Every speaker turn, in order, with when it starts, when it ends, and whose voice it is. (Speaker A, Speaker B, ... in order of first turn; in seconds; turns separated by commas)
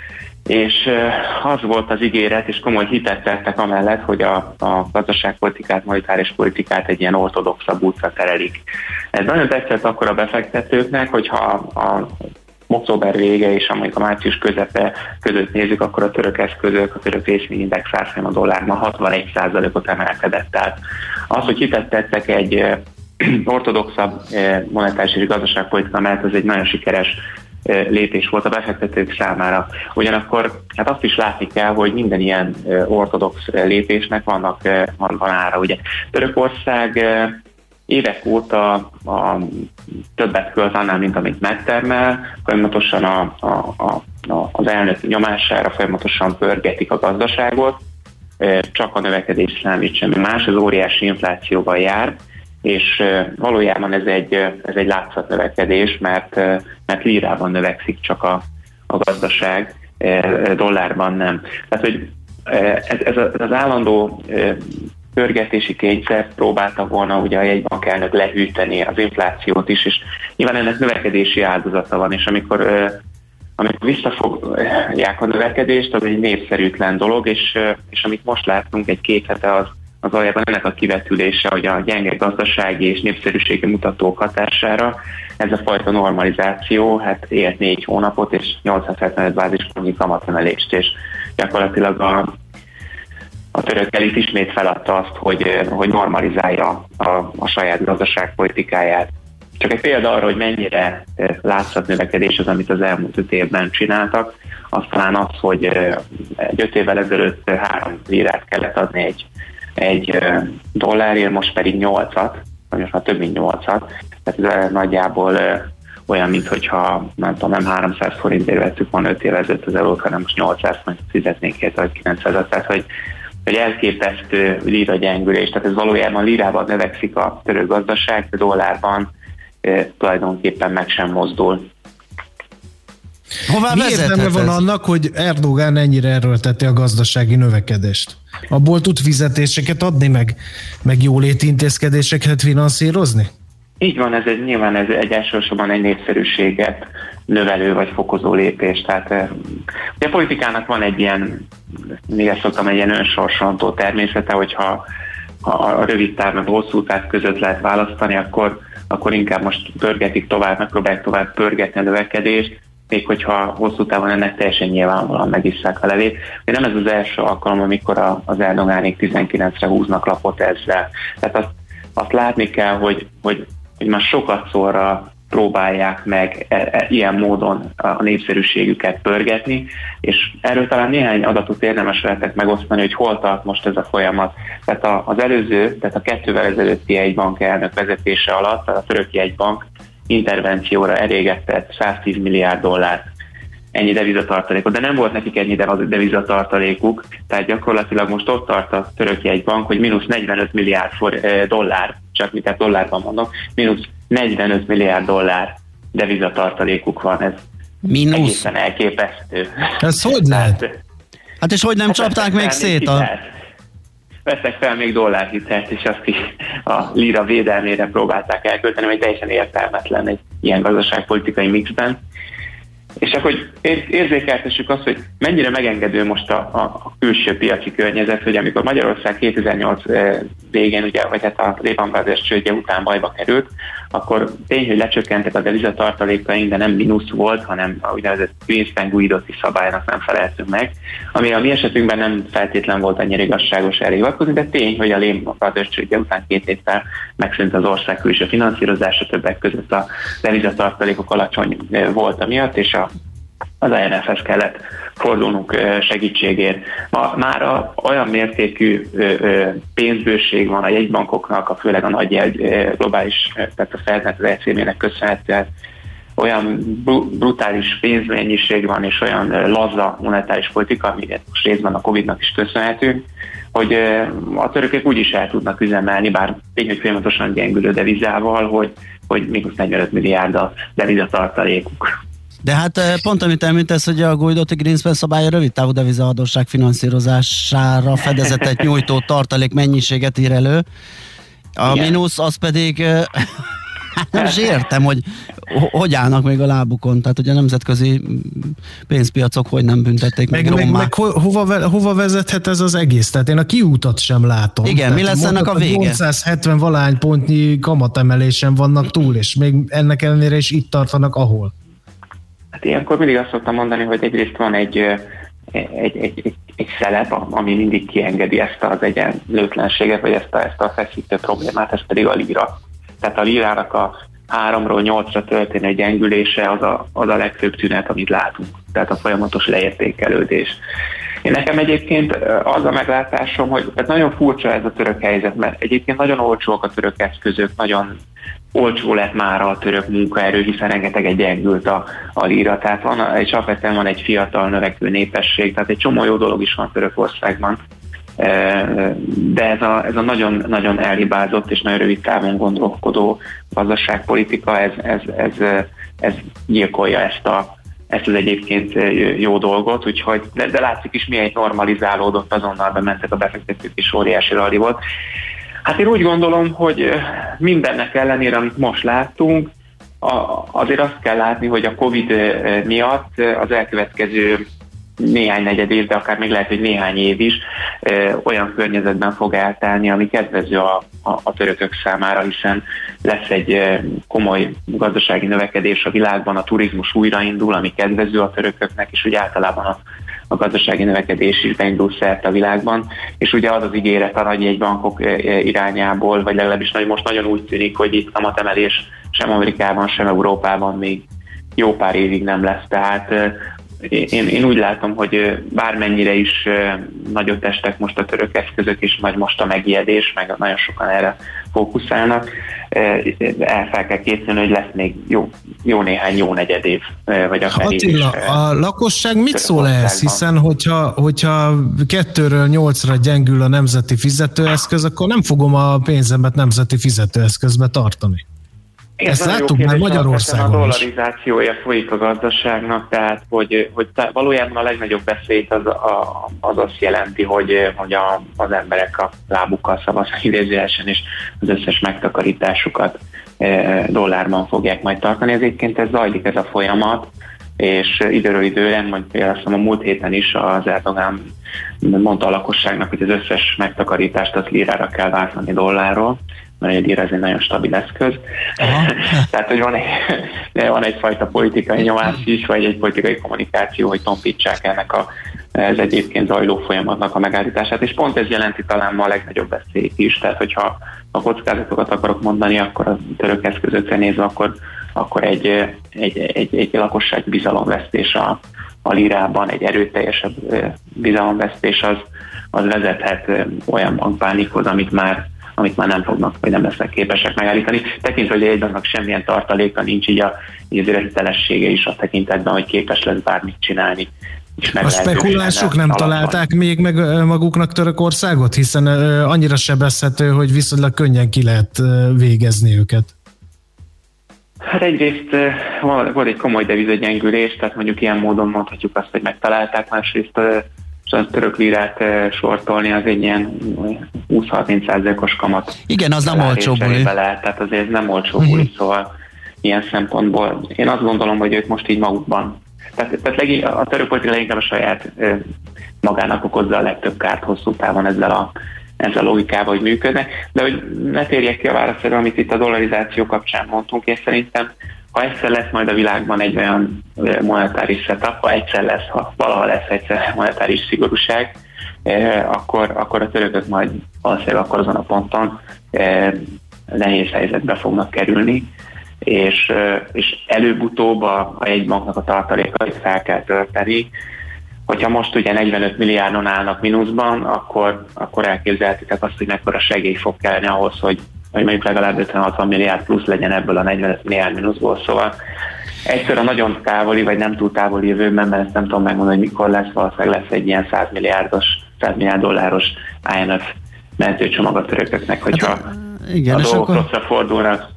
Speaker A: 0.5-8.6, Speaker A: 9.1-12.1, Speaker A: 12.7-20.8, Speaker A: 21.3-47.8, Speaker A: 48.4-73.0, Speaker A: 73.6-92.3, Speaker A: 93.5-122.9, Speaker A: 123.5-129.1, Speaker A: 129.6-131.7, Speaker B: 133.5-134.6, Speaker C: 133.7-143.3, Speaker A: 143.8-149.4, Speaker A: 150.0-151.4, Speaker A: 152.1-154.8, Speaker A: 155.4-193.0, Speaker A: 193.7-207.4, Speaker B: 207.8-208.5, Speaker A: 208.1-210.7, Speaker C: 209.8-210.6, Speaker B: 211.4-213.1, Speaker A: 211.9-213.3, Speaker A: 214.2-222.0, Speaker A: 223.0-252.9, Speaker A: 253.6-265.5, Speaker A: 266.2-281.9, Speaker B: 282.4-290.6, Speaker B: 291.6-293.3, Speaker A: 291.7-291.9, Speaker B: 294.0-300.9, Speaker C: 300.3-311.5, Speaker B: 304.6-306.0, Speaker A: 312.6-330.6, Speaker A: 331.2-338.0, Speaker A: 338.5-347.6, Speaker A: 348.2-364.8, Speaker A: 365.6-369.5, Speaker A: 370.0-374.4, Speaker A: 375.0-389.8, Speaker A: 390.3-401.0, Speaker A: 401.6-418.4, Speaker C: 417.5-428.2, Speaker A: 419.3-420.2, Speaker A: 429.0-447.1, Speaker C: 429.1-430.8, Speaker A: 447.6-451.2, Speaker A: 451.8-496.4, Speaker B: 458.6-459.2, Speaker C: 494.8-503.1, Speaker A: 504.7-519.1, Speaker B: 515.9-517.1, Speaker A: 519.6-525.4, Speaker A: 526.0-546.4, Speaker A: 546.9-548.7, Speaker A: 549.2-554.1, Speaker A: 554.9-565.4, Speaker A: 566.0-575.8, Speaker B: 575.5-577.1, Speaker A: 576.5-577.8